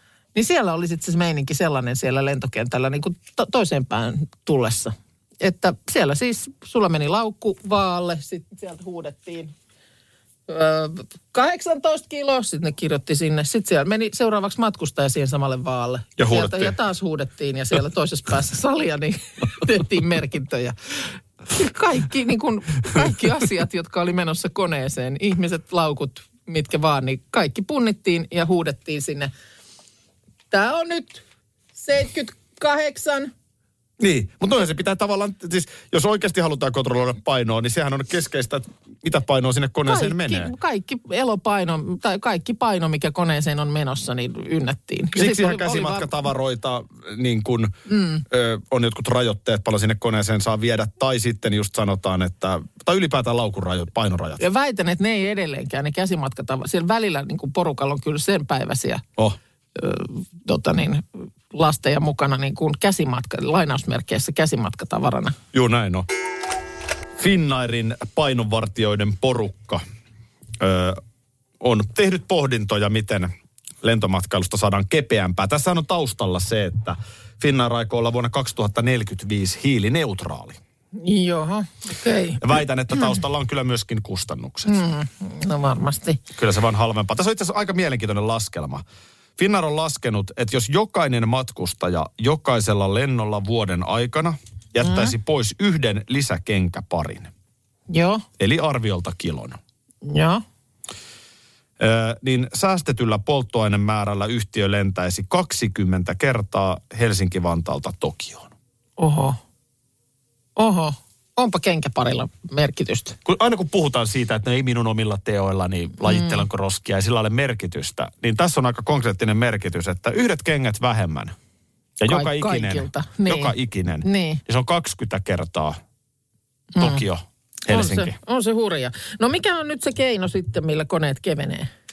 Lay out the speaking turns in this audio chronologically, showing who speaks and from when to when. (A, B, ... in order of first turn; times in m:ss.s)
0:00.4-0:09.5 A
0:10.5-0:20.8 A
0:16.2-0:16.8 B
0:21.5-0:29.3 A
0:30.5-0:31.2 A
0:31.8-0:33.3 A
0:34.0-0:40.5 B
0:39.9-0:46.1 A
0:45.2-0:47.8 B
0:47.9-0:48.2 A
0:48.3-0:54.4 B
0:54.4-0:59.0 A
0:59.8-1:05.4 A
1:05.5-1:06.1 B
1:07.2-1:09.8 B
1:10.6-1:11.0 B
1:11.6-1:13.3 B
1:13.8-1:20.6 B
1:21.0-1:23.2 A
1:22.4-1:24.8 B
1:24.7-1:26.2 A
1:26.4-1:28.8 B
1:29.4-1:37.3 B
1:34.8-1:35.2 A
1:37.9-1:38.2 A
1:38.4-1:39.6 B
1:40.0-1:40.4 A
1:41.8-1:48.5 B
1:49.0-1:49.4 A
1:50.6-1:53.2 A
1:53.3-2:01.4 B
1:56.1-1:56.4 A
2:02.0-2:05.8 B
2:02.1-2:04.4 A
2:06.8-2:07.0 A
2:06.8-2:08.2 B
2:07.7-2:11.7 A